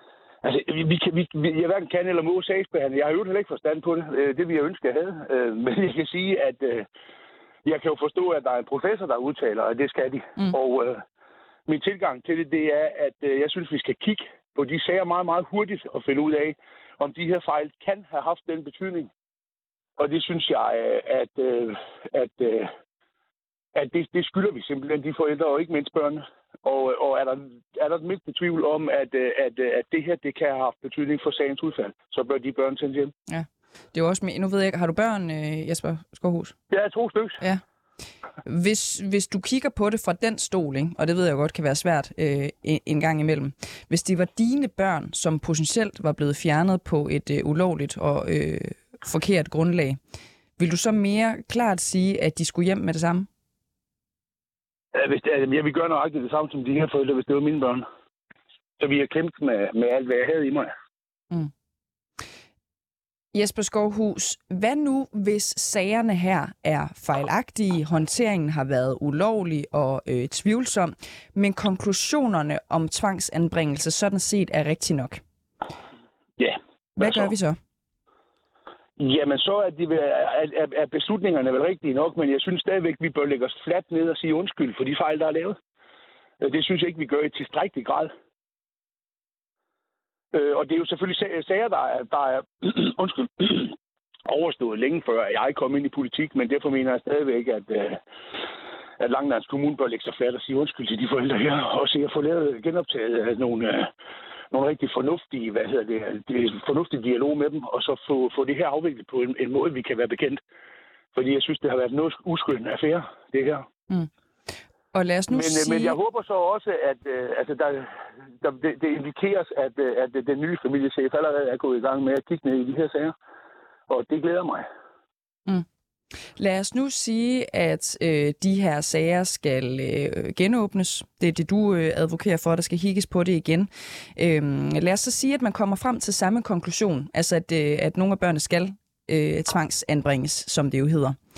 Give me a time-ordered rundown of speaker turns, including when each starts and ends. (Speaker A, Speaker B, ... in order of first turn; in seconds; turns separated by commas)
Speaker A: 0.4-6.9, Speaker A: 7.6-11.0, Speaker A: 11.7-19.1, Speaker A: 20.0-22.7, Speaker A: 23.7-33.1, Speaker B: 33.3-36.5, Speaker A: 36.7-37.4, Speaker B: 38.4-50.0, Speaker B: 50.6-53.3, Speaker A: 54.9-57.8, Speaker A: 58.8-60.7, Speaker B: 63.3-75.2, Speaker A: 76.4-77.2, Speaker B: 77.0-77.6, Speaker A: 79.0-85.6, Speaker A: 86.4-88.1, Speaker A: 90.3-98.0, Speaker A: 99.0-103.9, Speaker A: 104.5-110.4, Speaker A: 111.1-113.7, Speaker B: 114.9-116.0, Speaker A: 115.3-123.1, Speaker A: 123.9-124.7, Speaker B: 126.4-141.2